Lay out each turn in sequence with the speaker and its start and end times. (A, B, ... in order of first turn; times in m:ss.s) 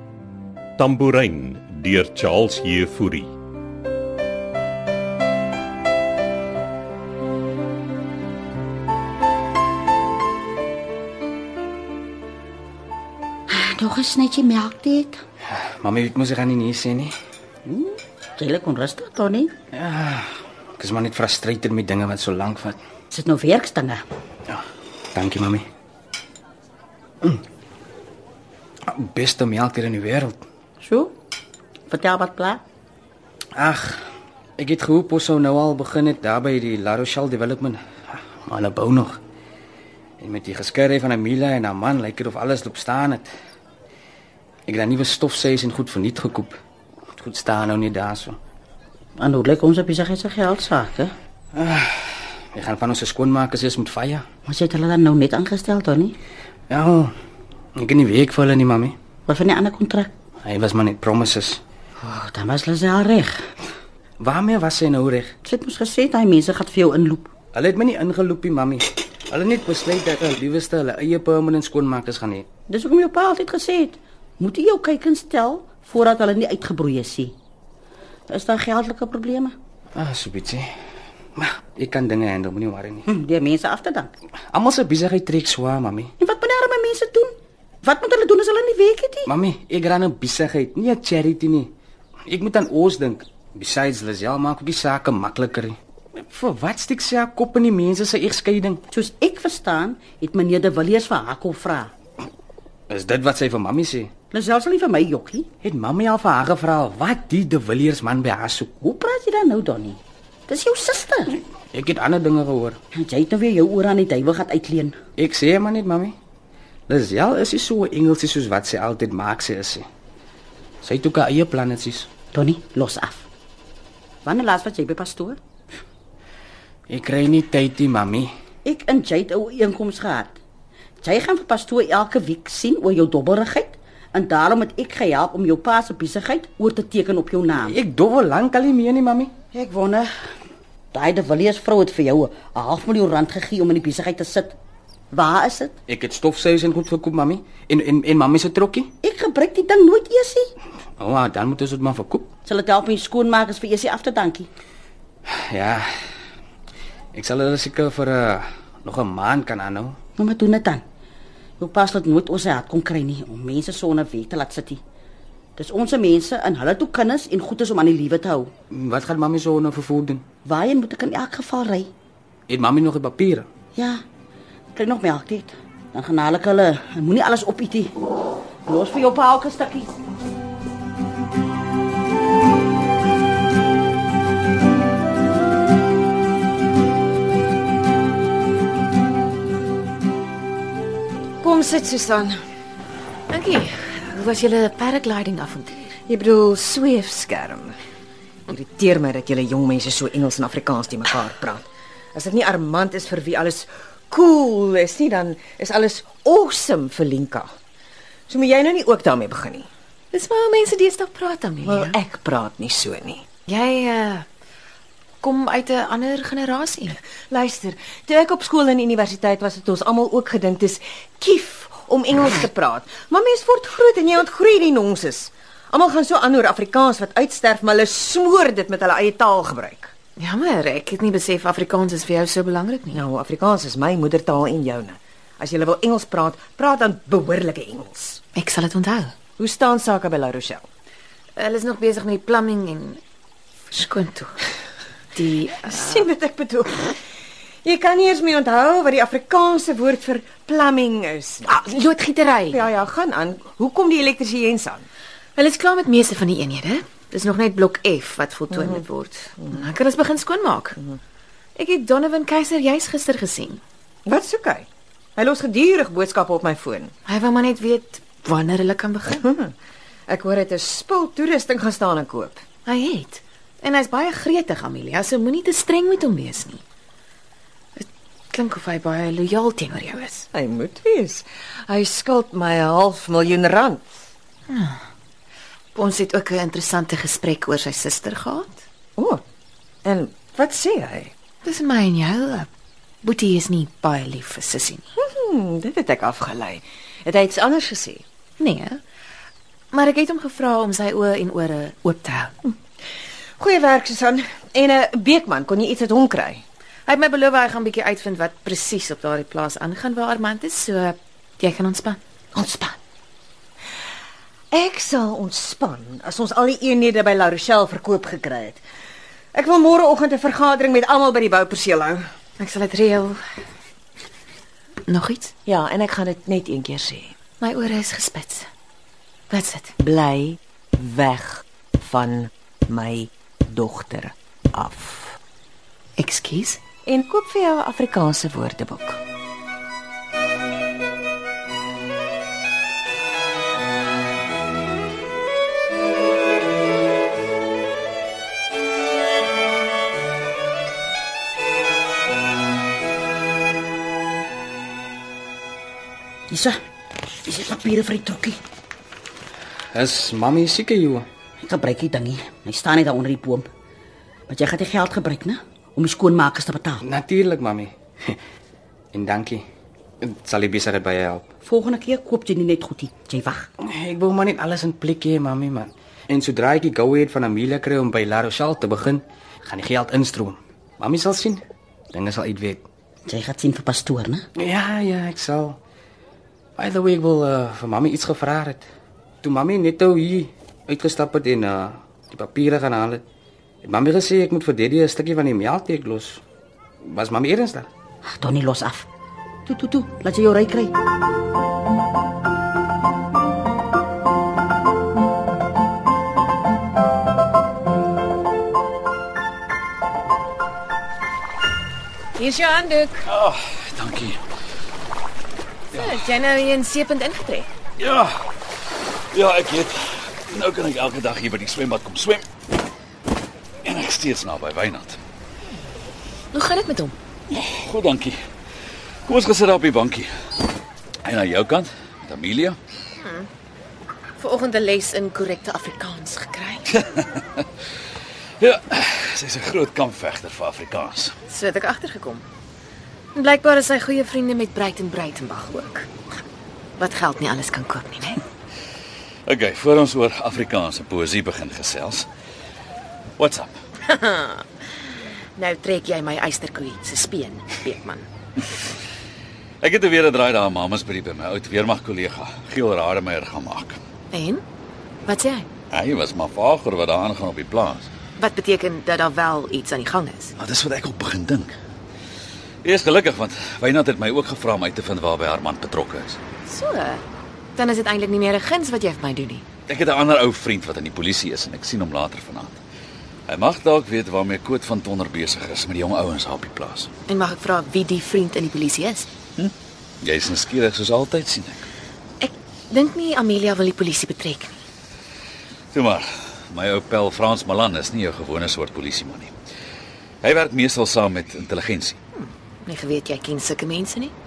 0:00.8-0:03.3 A
0:13.5-0:15.2 B
0:15.5-0:17.1 C
0:17.6-0:19.5 B
0:19.7-0:22.8 C
0:23.1-0:24.0 B
0:24.5-0:25.6 C
0:28.9-0:30.4 C
0:30.8-0:31.1 B
0:31.9-0:32.6 B
0:33.6-0:39.2 C
0:40.2-0:43.3 C
0:44.7-0:46.6 C
0:47.1-0:48.4 C
0:49.2-0:51.1 B
0:51.6-0:54.2 C
0:54.4-0:56.2 B
0:56.7-0:57.1 C
0:57.8-0:58.9 C
0:59.3-1:00.1 B
1:00.4-1:01.6 C
1:02.0-1:03.4 B
1:04.2-1:05.3 C
1:05.4-1:07.3 B
1:07.5-1:12.4 C
1:12.7-1:17.3 B
1:18.3-1:19.5 B
1:19.9-1:20.7 C
1:21.4-1:23.0 C
1:23.0-1:24.1 B
1:24.5-1:26.1 C
1:26.2-1:29.3 B
1:29.3-1:31.7 C
1:32.3-1:38.8 C
1:38.9-1:41.9 B
1:42.9-1:44.1 C
1:44.3-1:45.5 B
1:45.6-1:48.8 C
1:48.8-1:51.4 B
1:51.7-1:52.8 C
1:53.0-1:55.0 B
1:55.2-1:56.1 C
1:56.9-1:59.8 C
2:00.8-2:02.1 C
2:02.3-2:03.3 B
2:04.2-2:05.4 B
2:06.9-2:08.3 C
2:08.6-2:10.4 B
2:11.0-2:17.8 B
2:17.6-2:19.3 C
2:19.5-2:20.1 B
2:20.9-2:24.6 B
2:25.1-2:25.8 B
2:25.9-2:28.9 C
2:29.0-2:30.5 B
2:31.0-2:32.3 C
2:32.4-2:34.5 B
2:35.3-2:35.9 C
2:37.1-2:40.0 C
2:40.2-2:40.8 B
2:41.6-2:44.8 B
2:45.6-2:48.5 B
2:48.7-2:50.2 C
2:50.4-2:51.9 B
2:52.5-2:53.5 C
2:53.7-2:54.0 B
2:54.7-2:57.9 B
2:58.7-2:59.9 B
3:11.4-3:12.4 D
3:13.3-3:15.9 E
3:16.1-3:17.8 D
3:18.5-3:27.5 D
3:28.3-3:29.7 D
3:30.1-3:32.0 E
3:31.6-3:33.2 D
3:33.5-3:34.2 E
3:35.2-3:37.0 E
3:37.3-3:49.9 D
3:50.2-3:53.0 E
3:52.9-3:58.2 D
3:58.3-3:59.1 E
3:59.4-4:00.7 D
4:01.4-4:03.0 E
4:03.7-4:04.4 E
4:05.1-4:06.1 E
4:05.6-4:07.0 D
4:07.6-4:11.6 D
4:11.5-4:12.6 E
4:12.5-4:14.9 D
4:15.4-4:20.8 E
4:18.6-4:18.8 D
4:21.6-4:23.6 E
4:24.0-4:26.9 D
4:27.0-4:29.2 E
4:29.2-4:29.5 D
4:30.1-4:32.4 D
4:32.6-4:36.6 E
4:37.8-4:40.3 E
4:40.3-4:44.0 D
4:44.5-4:44.8 E
4:45.7-4:48.6 E
4:49.0-4:49.2 D
4:49.8-4:51.1 D
4:51.4-4:52.5 E
4:53.0-4:54.8 E
4:55.0-4:58.0 D
4:58.4-4:58.8 E
4:59.7-5:02.3 E
5:03.4-5:06.4 D
5:06.9-5:12.8 E
5:14.5-5:18.6 D
5:19.3-5:22.0 D
5:22.4-5:23.2 E
5:24.8-5:25.3 E
5:25.4-5:27.2 D
5:27.4-5:28.5 E
5:29.3-5:29.7 E
5:29.8-5:35.2 D
5:36.0-5:36.6 E
5:36.8-5:39.0 D
5:56.3-5:56.6 B
5:57.2-5:58.4 B
5:59.7-6:01.0 C
6:01.4-6:03.4 B
6:04.3-6:06.8 B
6:06.8-6:08.2 C
6:08.9-6:09.4 C
6:10.0-6:11.3 C
6:11.4-6:13.5 B
6:13.6-6:22.7 C
6:23.1-6:24.2 B
6:24.4-6:25.6 C
6:26.6-6:28.6 C
6:29.2-6:33.0 C
6:33.6-6:36.2 C
6:36.8-6:37.7 C
6:38.0-6:38.9 B
6:39.4-6:40.7 B
6:52.2-6:53.0 E
6:53.0-6:54.2 F
6:55.7-6:57.5 E
6:57.8-6:58.2 F
6:59.1-7:02.2 F
7:03.6-7:05.0 F
7:06.3-7:06.9 E
7:07.3-7:08.2 F
7:09.1-7:10.1 F
7:11.0-7:12.6 F
7:13.0-7:13.3 E
7:14.2-7:16.8 E
7:17.0-7:17.4 F
7:18.4-7:21.1 F
7:21.3-7:22.2 E
7:23.1-7:25.9 E
7:26.8-7:28.2 E
7:29.3-7:32.1 F
7:33.2-7:33.5 F
7:33.8-7:34.4 E
7:35.4-7:38.1 E
7:39.6-7:43.8 F
7:44.1-7:44.4 E
7:45.0-7:45.5 E
7:45.7-7:47.9 F
7:48.2-7:50.3 E
7:50.4-7:51.5 F
7:52.6-7:56.2 F
7:56.4-7:57.0 E
7:57.6-7:59.4 E
7:59.7-8:02.6 F
8:03.3-8:06.9 F
8:07.1-8:09.1 E
8:09.4-8:11.6 F
8:12.2-8:14.5 E
8:15.7-8:19.3 F
8:20.2-8:22.0 F
8:22.2-8:24.1 E